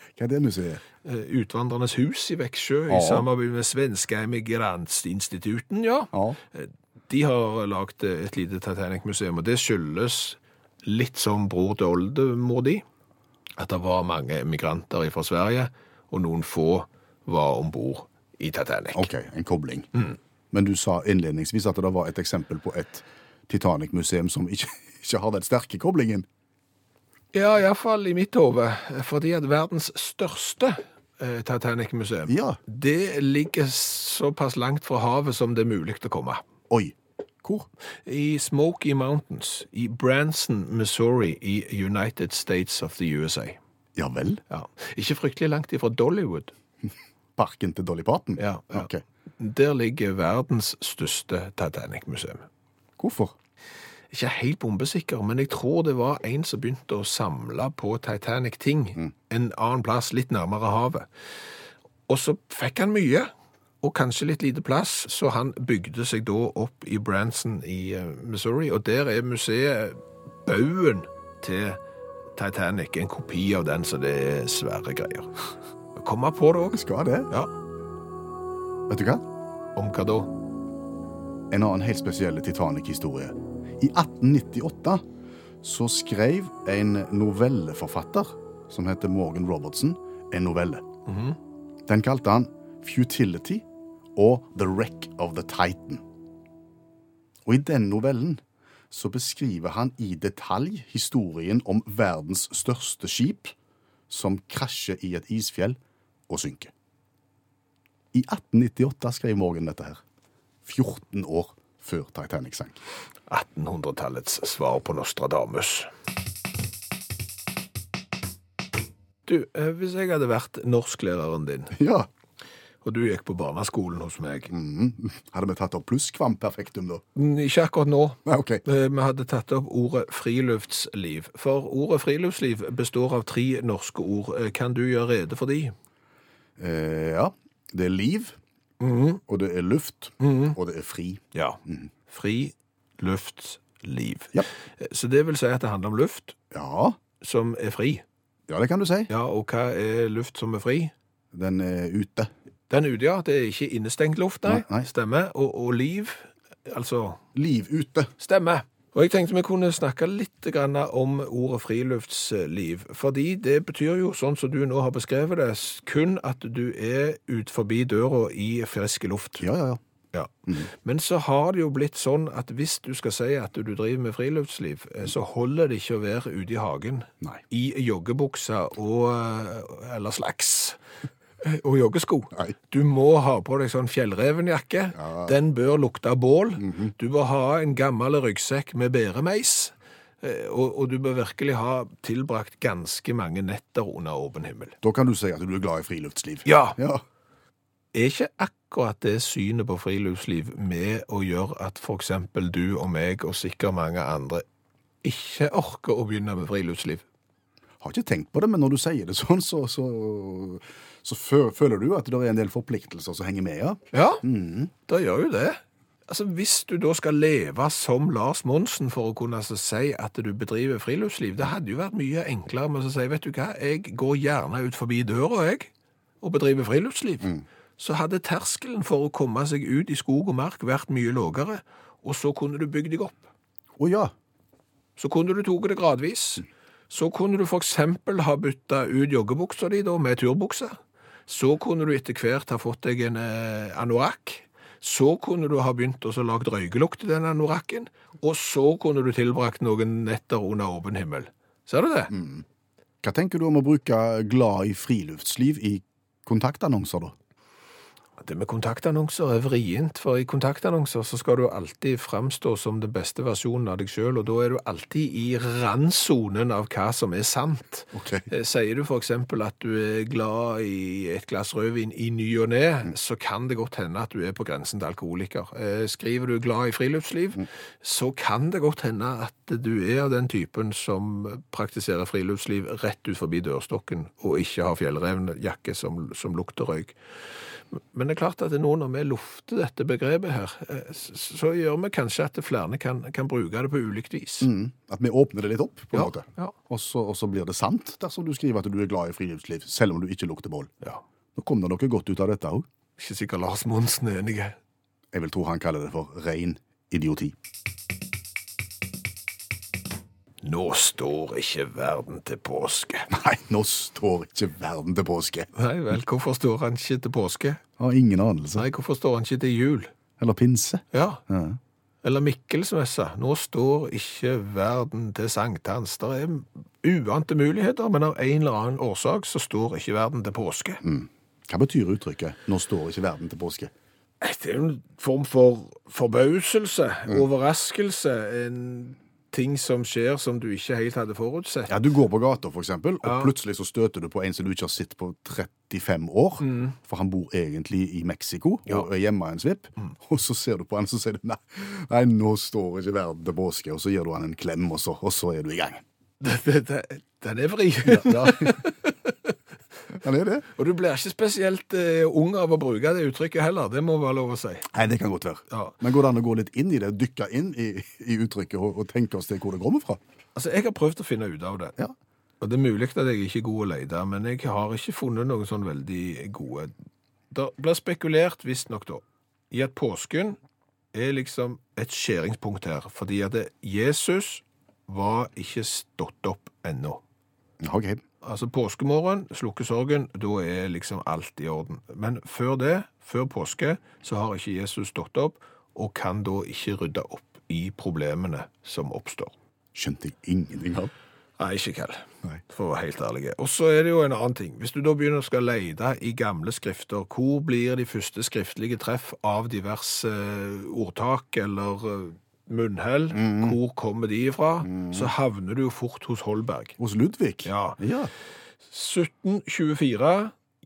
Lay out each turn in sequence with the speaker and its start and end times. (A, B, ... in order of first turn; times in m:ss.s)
0:00.2-0:00.8 A
0:01.0-0:12.8 B
0:02.9-0:03.3 A
0:06.1-0:06.4 A
0:13.6-0:19.1 B
0:18.9-0:19.9 A
0:20.5-0:26.3 A
0:27.3-0:36.4 B
0:32.3-0:32.6 A
0:36.7-0:37.7 A
0:38.1-0:43.6 B
0:44.0-0:44.4 A
0:44.5-0:46.5 B
0:47.4-0:49.0 A
0:48.4-0:52.4 B
0:53.0-0:53.4 A
0:54.1-1:01.1 B
1:02.1-1:03.3 B
1:03.8-1:11.8 B
1:12.4-1:15.4 B
1:16.0-1:16.8 B
1:16.7-1:17.3 A
1:18.9-1:19.2 A
1:19.8-1:20.3 B
1:21.5-1:25.0 A
1:25.6-1:30.9 A
1:31.1-1:31.4 B
1:31.9-1:36.0 A
1:37.5-1:43.6 A
1:44.1-1:46.7 A
1:48.1-1:50.0 A
1:50.6-1:52.8 A
1:53.3-1:55.9 B
1:59.3-2:01.8 B
2:01.8-2:02.1 A
2:02.8-2:04.5 B
2:04.5-2:07.0 A
2:07.2-2:15.7 B
2:08.2-2:08.6 A
2:16.6-2:18.4 A
2:18.8-2:19.2 B
2:19.3-2:21.9 A
2:20.2-2:20.6 B
2:21.3-2:26.4 B
2:26.5-2:27.0 A
2:27.2-2:28.0 B
2:28.5-2:29.1 A
2:29.1-2:30.9 B
2:31.3-2:32.3 A
2:32.7-2:37.2 B
2:34.4-2:34.9 A
2:37.4-2:38.1 A
2:38.2-2:49.5 B
2:49.4-2:49.8 A
2:50.1-3:00.8 B
3:01.4-3:14.8 B
3:05.0-3:05.3 A
3:06.6-3:06.9 A
3:14.8-3:17.0 A
3:16.5-3:16.8 B
3:17.9-3:24.4 B
3:25.0-3:27.0 B
3:27.8-3:34.7 A
3:33.9-3:34.2 B
3:34.9-3:45.7 B
3:46.2-3:53.3 B
3:53.8-3:54.1 A
3:55.0-4:00.8 B
4:01.3-4:12.1 B
4:12.1-4:12.4 A
4:13.0-4:17.2 A
4:18.2-4:47.0 B
4:27.9-4:28.3 A
4:47.8-4:54.5 B
4:54.4-5:00.7 A
4:55.9-4:56.5 B
5:01.4-5:02.7 A
5:03.0-5:04.6 B
5:05.1-5:07.4 A
5:10.4-5:13.1 B
5:13.1-5:15.5 A
5:15.6-5:17.6 B
5:17.8-5:18.7 A
5:18.6-5:19.9 B
5:20.2-5:21.6 A
5:20.9-5:21.2 B
5:22.0-5:30.8 B
5:30.8-5:33.7 A
5:34.2-5:41.7 B
5:41.7-5:55.8 A
5:43.0-5:43.3 B
5:46.4-5:46.8 B
5:56.2-5:59.3 B
5:57.9-5:58.6 A
5:59.9-6:00.5 A
6:00.6-6:04.7 B
6:04.7-6:10.0 A
6:10.4-6:11.8 B
6:12.4-6:16.7 B
6:17.3-6:20.4 B
6:20.9-6:27.0 B
6:27.6-6:28.0 A
6:28.2-6:39.3 B
6:39.8-6:40.9 A
6:41.4-6:56.8 B
6:53.1-6:53.6 A
6:54.7-6:55.1 A
6:56.8-6:58.1 A
6:57.4-6:57.8 B
6:58.7-7:00.3 B